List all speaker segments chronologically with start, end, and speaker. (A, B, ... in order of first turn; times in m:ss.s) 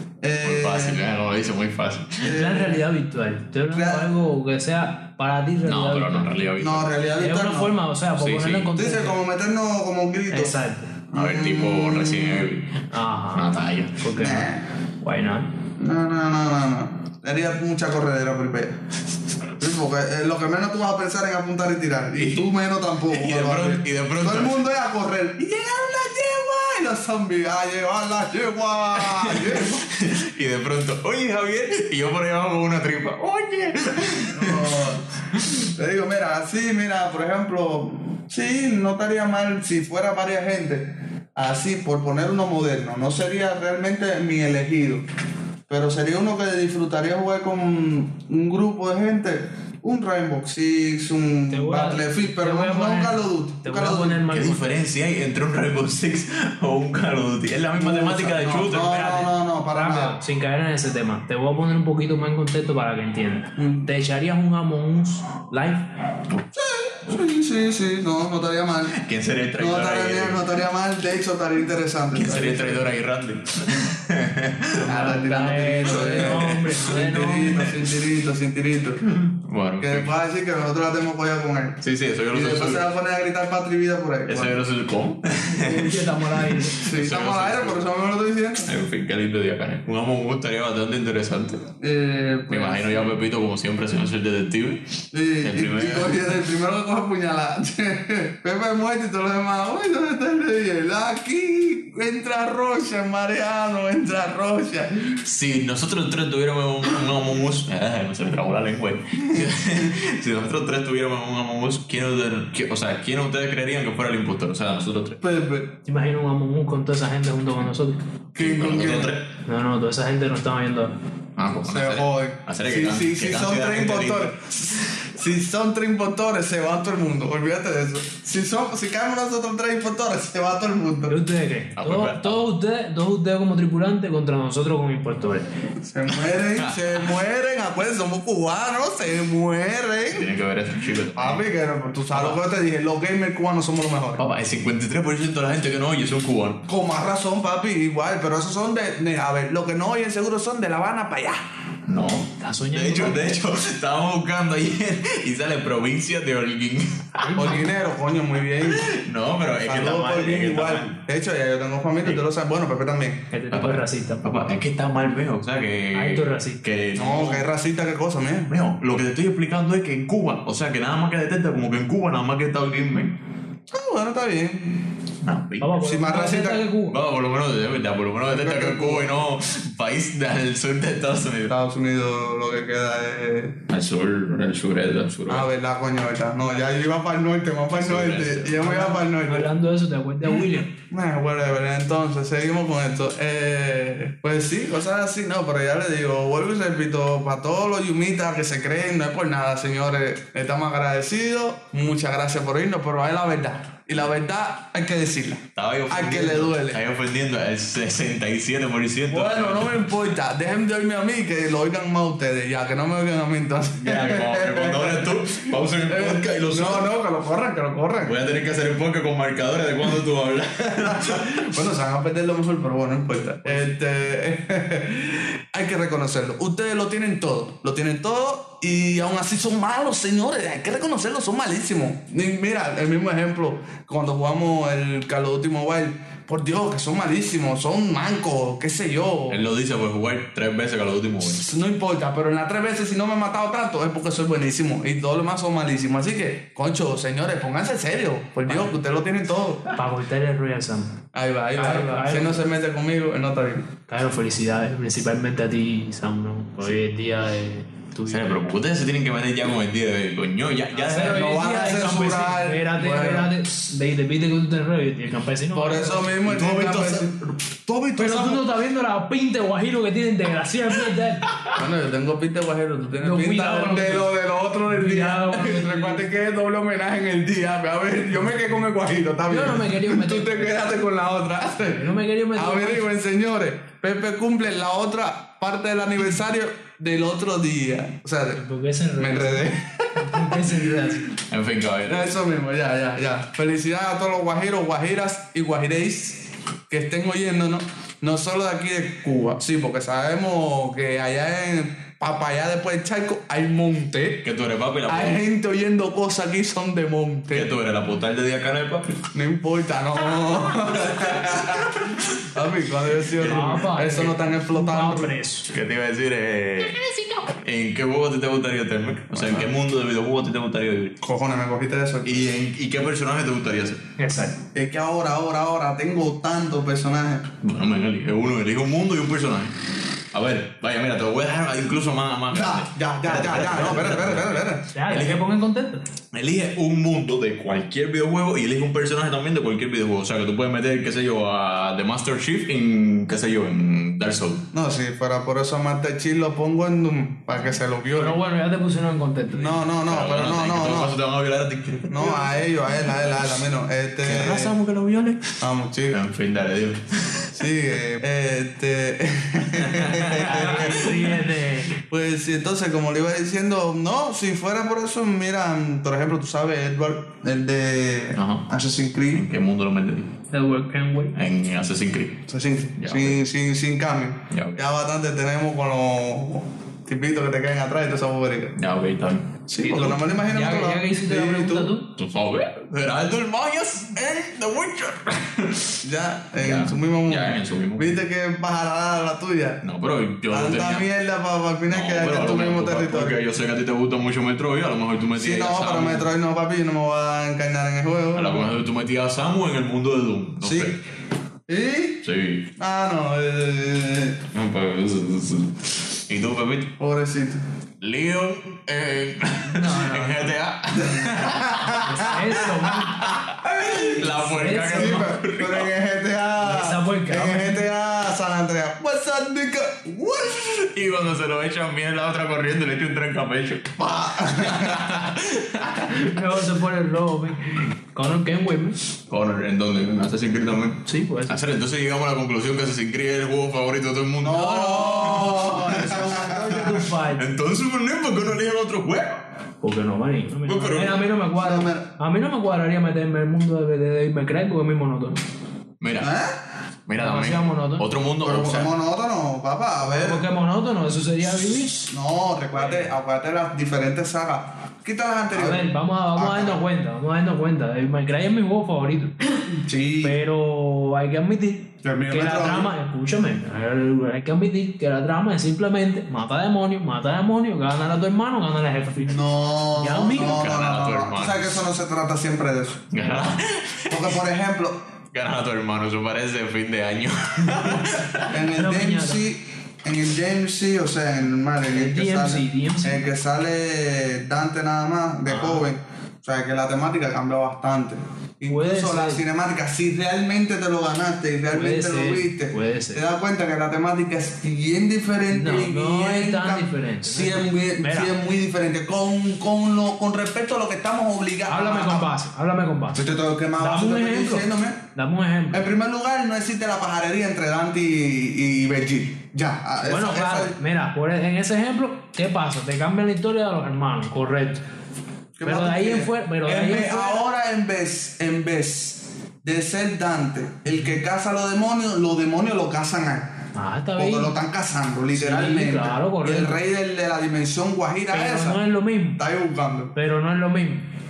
0:00.2-0:01.0 A
0:00.4-0:02.4 B
0:02.2-0:02.8 A
0:02.2-0:06.5 C
0:03.7-0:04.1 A
0:05.6-0:06.9 B
0:06.6-0:07.7 A
0:07.2-0:09.2 C
0:08.2-0:08.7 B
0:08.7-0:10.6 A
0:10.3-0:10.9 C
0:11.1-0:12.5 A
0:11.1-0:12.8 B
0:12.9-0:14.5 C
0:13.3-0:14.0 B
0:14.1-0:14.6 A
0:15.0-0:15.5 C
0:15.8-0:18.7 A
0:19.6-0:29.8 A
0:22.2-0:22.5 B
0:23.1-0:24.6 B
0:28.9-0:34.8 B
0:34.3-0:35.0 A
0:35.7-0:45.0 A
0:45.7-0:54.2 A
0:51.5-0:54.7 C
0:54.3-0:59.3 B
0:57.7-1:00.2 A
0:59.7-1:05.9 C
1:03.6-1:03.9 A
1:07.0-1:08.9 A
1:08.9-1:10.5 B
1:09.6-1:13.0 A
1:12.1-1:14.8 B
1:14.8-1:17.6 C
1:14.8-1:19.0 A
1:15.9-1:17.8 B
1:19.2-1:20.1 B
1:19.8-1:21.8 A
1:21.8-1:22.8 B
1:22.3-1:24.6 A
1:24.3-1:27.8 B
1:25.4-1:26.8 C
1:26.8-1:28.7 A
1:28.6-1:31.6 B
1:31.8-1:33.1 A
1:32.5-1:34.8 B
1:35.1-1:45.2 A
1:35.4-1:36.2 B
1:45.2-1:55.2 B
1:49.2-1:49.5 A
1:55.2-1:55.7 A
1:55.8-1:58.0 C
1:58.3-1:59.2 A
1:58.4-1:59.3 B
1:59.4-2:00.9 C
2:01.4-2:04.4 B
2:01.6-2:11.2 A
2:11.1-2:15.5 C
2:11.8-2:12.4 B
2:15.8-2:20.3 A
2:16.1-2:17.2 B
2:20.1-2:21.4 B
2:21.1-2:24.2 A
2:22.1-2:22.4 B
2:24.2-2:26.6 B
2:26.7-2:31.4 A
2:31.9-2:37.6 B
2:32.4-2:33.2 C
2:37.2-2:37.7 C
2:37.4-2:38.9 A
2:38.6-2:41.0 B
2:39.6-2:43.2 A
2:43.3-2:44.3 C
2:43.5-2:47.5 B
2:45.9-2:46.6 C
2:47.0-2:48.5 A
2:48.5-2:53.1 B
2:53.7-2:54.8 A
2:55.2-2:55.8 B
2:55.6-2:57.0 C
2:55.8-2:56.6 A
2:56.9-3:01.5 B
2:58.3-2:59.2 A
3:01.5-3:03.6 A
3:03.7-3:05.5 B
3:05.3-3:09.5 A
3:07.7-3:08.6 B
3:08.6-3:10.7 C
3:10.2-3:26.8 A
3:25.5-3:29.9 B
3:29.1-3:38.2 A
3:33.8-3:36.9 B
3:38.0-3:41.3 B
3:40.8-3:59.4 A
3:59.3-4:01.4 B
4:01.2-4:09.6 A
4:08.4-4:08.7 C
4:09.7-4:10.9 C
4:11.1-4:13.6 A
4:11.5-4:12.4 C
4:13.9-4:18.3 C
4:18.1-4:21.3 B
4:20.7-4:26.1 C
4:20.9-4:23.3 A
4:25.5-4:28.4 A
4:26.2-4:27.1 B
4:28.0-4:31.2 C
4:31.5-4:48.4 A
4:33.0-4:34.1 C
4:34.7-4:36.1 C
4:39.3-4:40.6 C
4:41.6-4:42.8 C
4:48.3-4:51.1 C
4:49.0-4:50.6 A
4:51.3-4:52.2 B
4:51.8-5:04.2 A
5:04.2-5:05.2 B
5:04.9-5:07.6 A
5:07.3-5:09.0 B
5:09.1-5:11.7 A
5:10.1-5:12.4 B
5:12.3-5:15.1 A
5:13.0-5:13.7 B
5:13.2-5:15.5 C
5:15.5-5:20.9 B
5:19.1-5:19.5 A
5:21.0-5:22.3 A
5:22.0-5:23.8 B
5:24.0-5:24.4 C
5:24.5-5:27.2 A
5:27.4-5:29.5 B
5:30.1-5:35.2 B
5:32.3-5:34.6 A
5:34.7-5:35.8 C
5:36.1-5:44.4 B
5:44.5-5:48.2 A
5:48.0-5:49.6 C
5:49.3-5:50.9 A
5:49.8-5:53.2 B
5:51.9-5:54.5 A
5:54.0-5:55.3 B
5:55.4-5:56.0 A
5:55.9-5:57.4 B
5:57.3-6:01.0 A
5:59.5-6:01.0 B
6:00.1-6:01.8 C
6:01.9-6:09.2 A
6:08.1-6:08.5 B
6:09.1-6:10.1 B
6:10.3-6:11.1 C
6:11.1-6:12.2 B
6:12.3-6:18.5 A
6:12.8-6:13.2 B
6:14.3-6:14.6 B
6:18.6-6:20.0 B
6:19.5-6:21.7 A
6:19.8-6:21.9 C
6:22.0-6:25.8 B
6:25.8-6:29.6 A
6:26.4-6:28.0 B
6:29.6-6:30.9 B
6:30.3-6:33.2 A
6:31.7-6:36.1 B
6:35.2-6:38.5 A
6:38.1-6:40.8 B
6:40.4-6:40.7 A
6:41.5-6:42.0 A
6:42.0-6:42.4 B
6:42.6-6:44.2 A
6:44.3-6:46.7 B
6:46.8-6:47.4 A
6:47.8-6:55.7 B
6:49.5-6:50.3 C
6:50.7-6:54.0 A
6:51.8-6:53.0 C
6:54.2-6:55.1 C
6:54.7-7:00.5 A
6:56.4-6:57.6 C
7:00.4-7:03.8 B
7:03.8-7:04.8 A
7:04.4-7:06.4 B
7:05.9-7:08.8 C
7:09.1-7:19.2 B
7:10.8-7:11.4 C
7:14.2-7:16.8 A
7:16.1-7:17.2 C
7:19.6-7:25.2 C
7:20.4-7:21.1 B
7:21.4-7:21.9 A
7:25.8-7:26.1 B
7:26.0-7:26.3 A
7:26.9-7:28.7 B
7:27.0-7:27.8 C
7:28.2-7:30.2 A
7:29.8-7:31.9 C
7:31.9-7:36.6 A
7:32.5-7:32.9 C
7:35.3-7:39.1 C
7:39.5-7:40.2 A
7:40.0-7:50.4 C
7:41.8-7:42.7 A
7:49.0-7:52.9 A
7:50.2-7:51.6 B
7:52.9-7:54.2 B
7:53.9-7:54.8 A
7:55.1-7:58.3 B
7:58.3-8:22.1 A
7:58.5-7:59.2 C
8:01.7-8:03.0 C
8:05.3-8:05.7 C
8:08.5-8:09.2 C
8:11.5-8:13.0 C
8:15.3-8:18.1 C
8:21.5-8:25.7 C
8:22.9-8:24.8 A
8:25.5-8:30.6 A
8:29.8-8:34.6 C
8:35.3-8:43.3 A
8:35.4-8:37.2 C
8:40.7-8:40.9 C
8:43.5-8:44.4 C
8:44.0-8:48.6 A
8:45.1-8:46.6 C
8:48.1-8:49.2 C
8:49.2-8:49.9 A
8:49.9-8:50.8 C